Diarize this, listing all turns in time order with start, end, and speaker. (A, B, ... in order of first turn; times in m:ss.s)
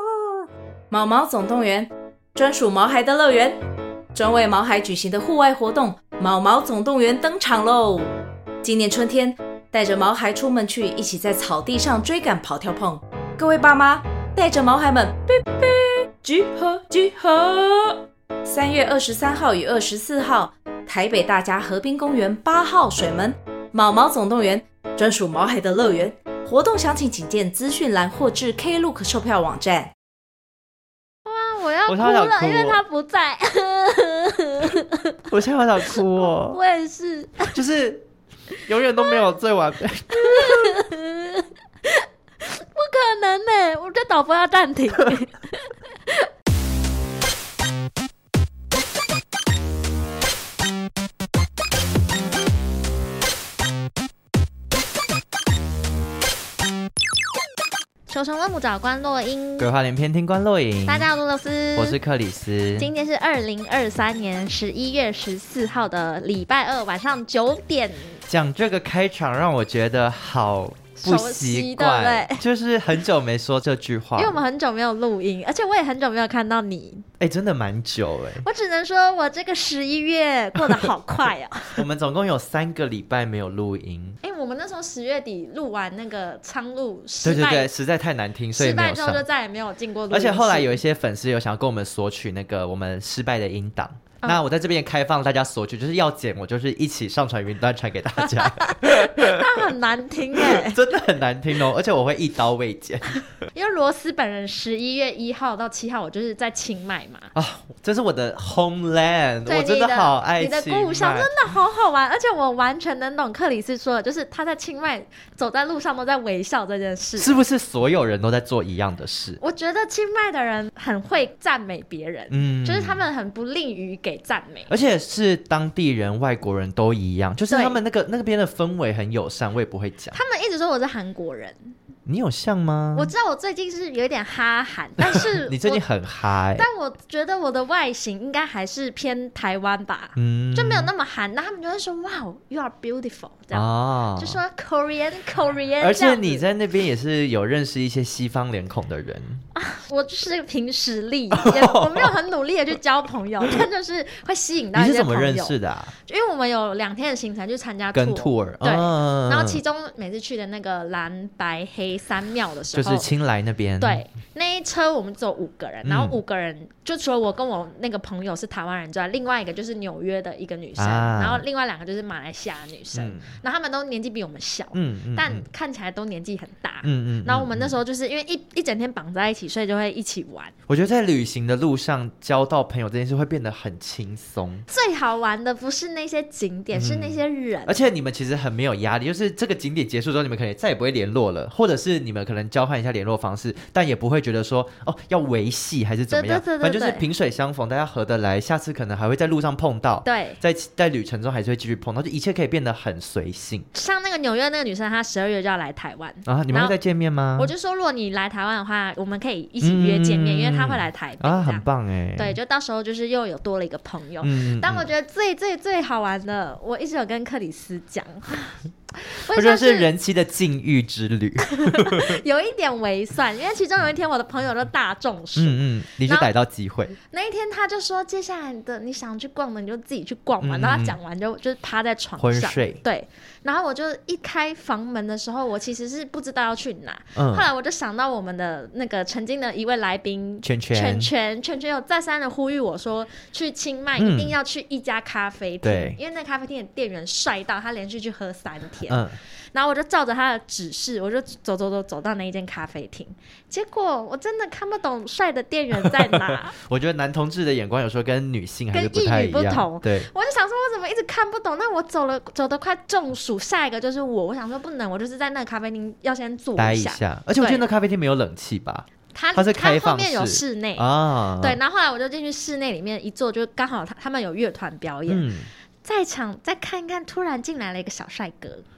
0:00.9-0:03.6 A
0:04.1-0:08.1 A
0:08.6-0:29.9 A
0:31.2-0:35.1 B
0:31.8-0:32.8 C
0:35.3-0:36.6 C
0:36.5-0:37.6 B
0:37.5-0:38.0 C
0:38.7-0:40.8 C
0:40.1-0:46.3 B
0:58.1-0:59.7 B
0:59.6-1:01.1 C
1:00.8-1:02.0 B
1:01.7-1:02.9 C
1:02.8-1:08.2 B
1:08.3-1:14.4 C
1:11.0-1:12.4 B
1:14.2-1:17.0 B
1:17.2-1:18.4 C
1:18.4-1:21.8 B
1:21.7-1:24.2 C
1:24.2-1:27.7 B
1:27.2-1:29.2 C
1:28.6-1:30.8 B
1:30.1-1:39.7 C
1:38.2-1:40.8 B
1:40.3-1:43.2 C
1:43.5-1:47.3 B
1:47.3-1:51.3 C
1:49.5-1:57.4 B
1:57.2-1:59.4 C
1:59.4-2:04.7 B
2:02.3-2:03.0 C
2:04.7-2:10.2 C
2:07.5-2:07.8 B
2:10.1-2:11.7 B
2:12.0-2:13.1 C
2:12.9-2:15.8 B
2:15.0-2:16.7 C
2:16.6-2:26.4 B
2:20.2-2:20.9 C
2:23.5-2:24.4 C
2:25.8-2:29.4 C
2:29.5-2:43.1 B
2:31.4-2:32.1 C
2:34.7-2:35.9 C
2:37.9-2:39.6 C
2:42.7-2:44.0 C
2:43.8-3:00.5 B
2:45.8-2:46.2 C
2:50.8-2:51.4 C
2:52.9-2:53.3 C
2:54.7-2:55.5 C
2:56.8-2:57.8 C
3:00.7-3:04.7 C
3:04.7-3:07.9 B
3:06.7-3:23.7 C
3:16.1-3:17.0 B
3:20.0-3:20.4 B
3:23.7-3:26.7 B
3:26.2-3:27.5 C
3:27.4-3:31.6 B
3:29.6-3:32.4 C
3:32.2-3:39.9 B
3:34.2-3:34.8 C
3:39.3-3:42.2 C
3:41.4-3:46.3 B
3:45.4-3:47.0 C
3:47.1-4:16.5 B
3:50.4-3:51.0 C
3:52.2-3:52.8 C
3:57.1-3:57.4 C
4:00.4-4:01.1 C
4:04.0-4:04.4 C
4:05.6-4:06.0 C
4:08.9-4:09.2 C
4:15.8-4:20.1 C
4:18.7-4:27.6 B
4:26.6-4:31.6 C
4:29.1-4:30.8 B
4:31.4-4:35.3 B
4:35.1-4:35.5 C
4:35.8-4:38.6 B